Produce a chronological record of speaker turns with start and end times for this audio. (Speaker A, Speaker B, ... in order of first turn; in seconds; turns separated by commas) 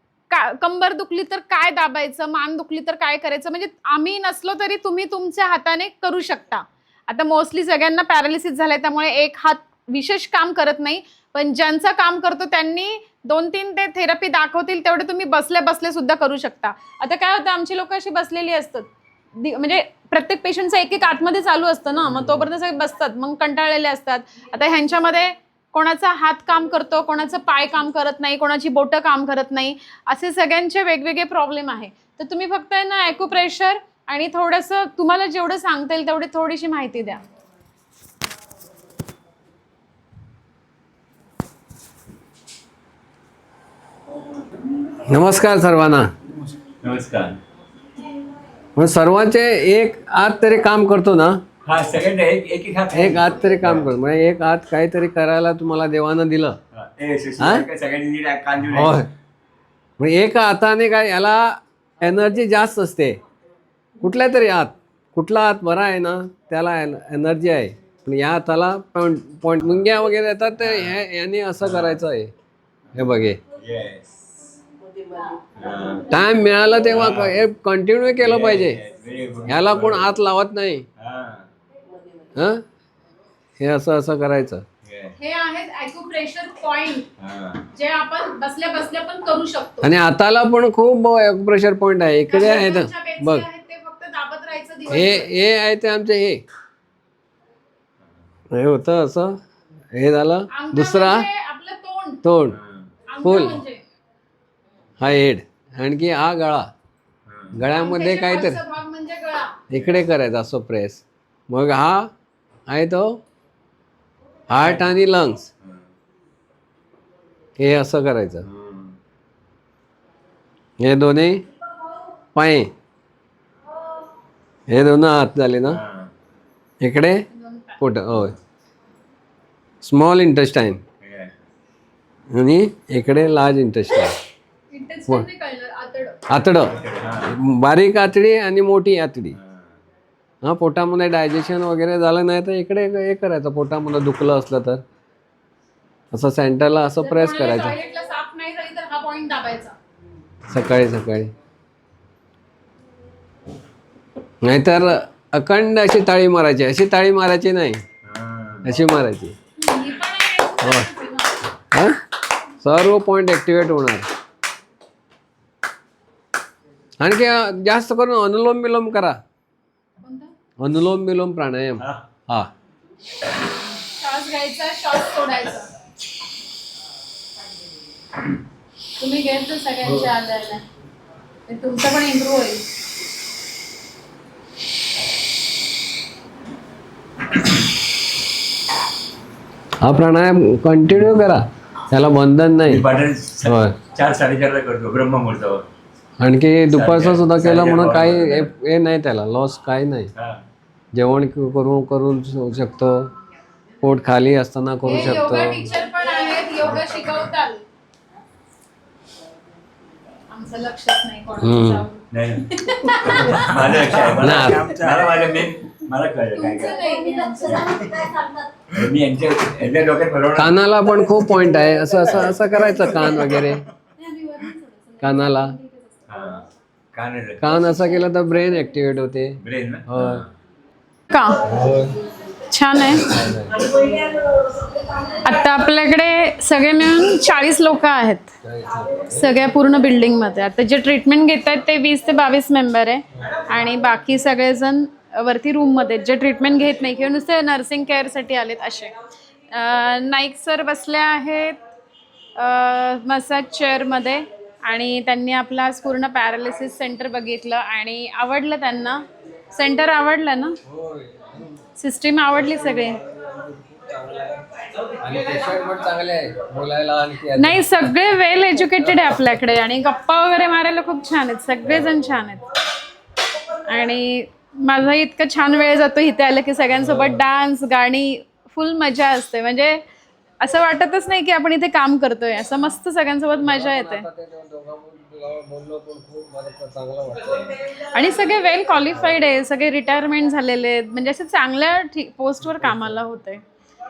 Speaker A: 0.3-37.2, Speaker B: 45.1-46.1, Speaker C: 46.8-47.4, Speaker B: 48.8-51.4, Speaker C: 51.6-53.9, Speaker B: 52.9-56.6, Speaker C: 56.7-59.0, Speaker B: 57.4-57.6, Speaker B: 58.7-59.1, Speaker B: 60.0-63.2, Speaker B: 64.0-72.3, Speaker C: 70.6-70.9, Speaker C: 71.6-72.0, Speaker B: 72.9-73.4, Speaker C: 73.5-74.0, Speaker C: 75.5-76.1, Speaker B: 76.1-78.8, Speaker C: 76.9-77.3, Speaker C: 78.2-80.1, Speaker B: 79.5-80.8, Speaker C: 81.0-81.5, Speaker B: 82.3-82.6, Speaker B: 83.6-84.6, Speaker C: 84.8-85.1, Speaker A: 85.2-87.1, Speaker C: 87.2-87.7, Speaker A: 87.7-89.9, Speaker B: 89.8-93.5, Speaker A: 92.3-95.2, Speaker B: 94.9-96.4, Speaker B: 98.5-99.4, Speaker B: 99.9-101.3, Speaker A: 100.5-102.2, Speaker B: 102.2-102.6, Speaker C: 102.5-102.9, Speaker A: 103.1-103.8, Speaker B: 103.2-103.6, Speaker B: 105.0-106.7, Speaker C: 107.3-107.6, Speaker B: 107.5-108.6, Speaker A: 107.7-109.5, Speaker B: 109.7-112.1, Speaker B: 112.7-113.2, Speaker B: 114.5-115.5, Speaker B: 117.6-118.5, Speaker C: 118.5-118.9, Speaker B: 120.8-121.4, Speaker B: 122.3-122.7, Speaker B: 124.7-125.8, Speaker C: 125.7-126.1, Speaker B: 126.8-127.2, Speaker A: 127.3-127.8, Speaker B: 127.8-128.3, Speaker B: 129.8-130.8, Speaker C: 131.0-131.3, Speaker B: 132.3-134.2, Speaker A: 134.7-136.2, Speaker B: 136.3-136.8, Speaker C: 136.6-137.3, Speaker B: 137.3-139.3, Speaker C: 139.3-139.7, Speaker B: 140.4-144.8, Speaker B: 146.1-147.8, Speaker A: 147.0-149.7, Speaker B: 150.5-151.3, Speaker B: 154.4-157.8, Speaker C: 158.0-158.7, Speaker B: 158.6-159.3, Speaker A: 159.6-161.3, Speaker B: 160.6-160.9, Speaker B: 161.7-162.0, Speaker B: 162.6-164.1, Speaker B: 167.0-169.2, Speaker A: 170.0-170.3, Speaker B: 170.6-172.5, Speaker A: 173.9-175.7, Speaker A: 179.0-180.6, Speaker A: 181.5-182.7, Speaker B: 189.8-192.8, Speaker C: 192.7-195.7, Speaker B: 193.4-193.8, Speaker B: 196.2-200.1, Speaker C: 196.7-198.5, Speaker C: 200.2-200.4, Speaker B: 200.9-203.1, Speaker B: 203.8-205.7, Speaker A: 204.8-207.6, Speaker A: 210.3-213.6, Speaker B: 211.4-211.8, Speaker C: 212.1-216.8, Speaker B: 214.1-214.9, Speaker A: 216.3-217.9, Speaker C: 217.4-217.9, Speaker C: 218.7-220.5, Speaker B: 220.3-223.6, Speaker A: 224.0-225.9, Speaker B: 225.0-225.5, Speaker C: 226.1-227.4, Speaker B: 227.4-230.2, Speaker C: 229.4-230.3, Speaker A: 231.1-231.4, Speaker B: 231.4-231.9, Speaker A: 232.5-233.1, Speaker B: 233.0-233.7, Speaker A: 235.2-238.3, Speaker B: 238.4-239.2, Speaker A: 239.1-248.9, Speaker A: 249.5-251.6, Speaker A: 252.4-260.6, Speaker B: 260.6-261.6, Speaker A: 261.8-263.0, Speaker B: 262.4-264.4, Speaker B: 265.0-267.6, Speaker A: 267.4-272.4, Speaker A: 273.7-279.8, Speaker B: 276.7-277.2, Speaker A: 280.4-284.0, Speaker B: 283.4-287.5, Speaker A: 287.9-293.4